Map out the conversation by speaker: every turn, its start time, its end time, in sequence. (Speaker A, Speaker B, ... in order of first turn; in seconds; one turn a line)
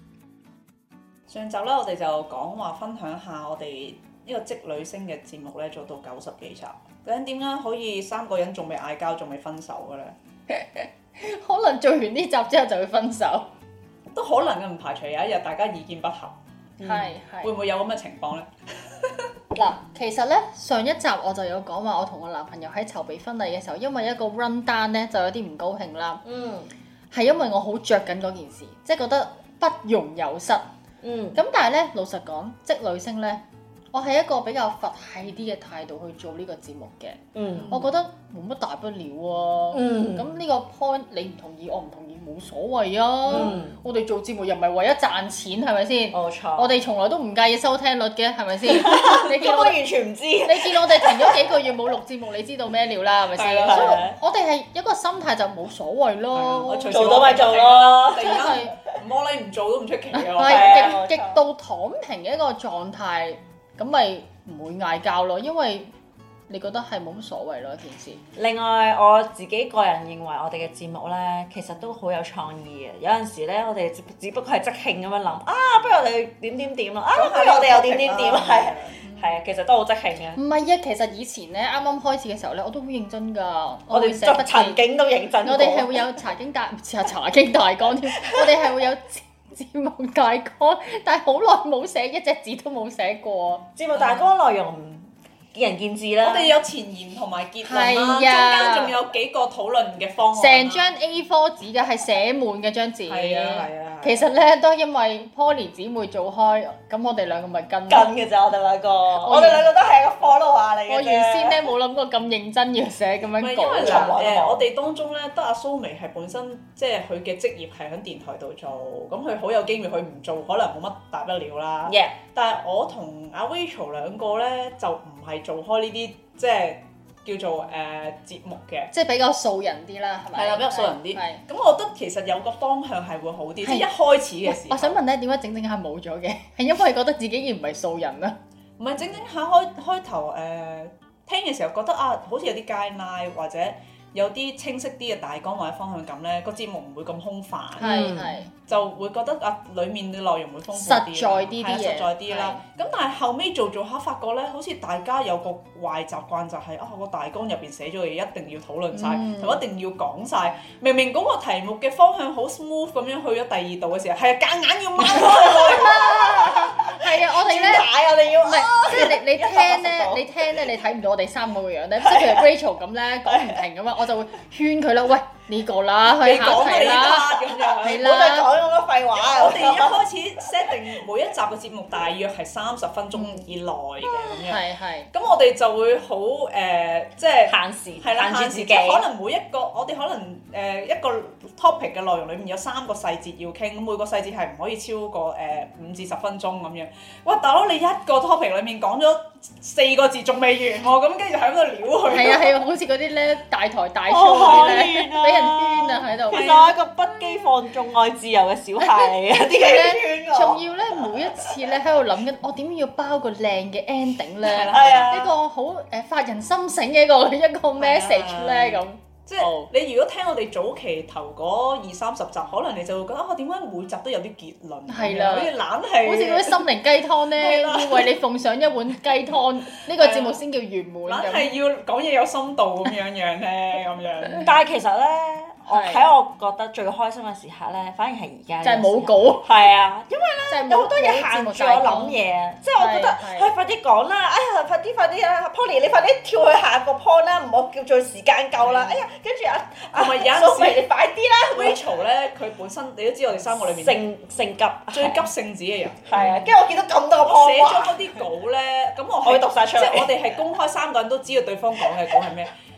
Speaker A: 1.3-10.1
Speaker B: 10.5-13.5
Speaker A: 14.1-19.3
Speaker B: 16.8-17.5
Speaker B: 19.5-26.2
Speaker C: 26.2-26.7
Speaker B: 27.1-30.7
Speaker C: 31.0-31.4
Speaker B: 31.3-33.4
Speaker B: 33.9-49.8
Speaker C: 37.3-37.9
Speaker C: 39.7-40.3
Speaker C: 43.3-43.8
Speaker C: 46.1-46.7
Speaker C: 48.7-51.5
Speaker B: 50.4-57.3
Speaker A: 53.3-54.0
Speaker C: 53.6-54.2
Speaker A: 56.3-61.0
Speaker C: 56.8-58.5
Speaker B: 58.1-58.7
Speaker B: 60.1-65.9
Speaker C: 60.4-61.4
Speaker B: 66.5-68.2
Speaker C: 68.3-80.4
Speaker A: 77.1-79.0
Speaker B: 80.3-84.8
Speaker C: 83.9-86.0
Speaker B: 85.4-93.6
Speaker C: 88.1-88.7
Speaker C: 93.8-96.6
Speaker A: 93.9-94.2
Speaker A: 96.2-100.9
Speaker B: 97.6-99.0
Speaker B: 100.3-108.1
Speaker A: 103.1-104.2
Speaker C: 107.9-111.7
Speaker B: 109.2-109.7
Speaker B: 110.9-114.2
Speaker A: 113.4-128.9
Speaker C: 113.8-114.7
Speaker C: 121.8-122.2
Speaker B: 128.9-131.4
Speaker A: 130.3-135.0
Speaker B: 134.4-138.3
Speaker A: 138.8-148.1
Speaker B: 147.8-148.5
Speaker C: 147.8-148.4
Speaker A: 148.7-166.0
Speaker B: 150.7-152.6
Speaker B: 158.9-159.6
Speaker C: 165.1-170.6
Speaker B: 165.1-178.5
Speaker C: 172.0-172.5
Speaker C: 173.2-173.6
Speaker A: 176.2-178.2
Speaker C: 176.7-180.1
Speaker A: 179.2-202.5
Speaker B: 183.1-183.5
Speaker B: 184.3-185.1
Speaker C: 187.4-189.1
Speaker B: 202.1-206.6
Speaker C: 204.1-211.8
Speaker A: 204.4-204.8
Speaker A: 206.3-206.7
Speaker B: 208.8-219.7
Speaker A: 214.4-215.2
Speaker C: 214.7-215.3
Speaker A: 217.8-226.7
Speaker B: 224.9-231.5
Speaker A: 227.3-228.2
Speaker A: 229.9-230.4
Speaker A: 231.1-234.5
Speaker C: 234.4-251.9
Speaker B: 235.7-236.1
Speaker B: 238.6-239.5
Speaker B: 240.5-242.2
Speaker B: 242.8-243.5
Speaker A: 248.6-249.0
Speaker A: 249.9-250.9
Speaker A: 251.5-254.0
Speaker C: 253.6-255.3
Speaker A: 254.9-256.5
Speaker C: 256.0-258.2
Speaker A: 257.2-262.5
Speaker C: 259.2-260.1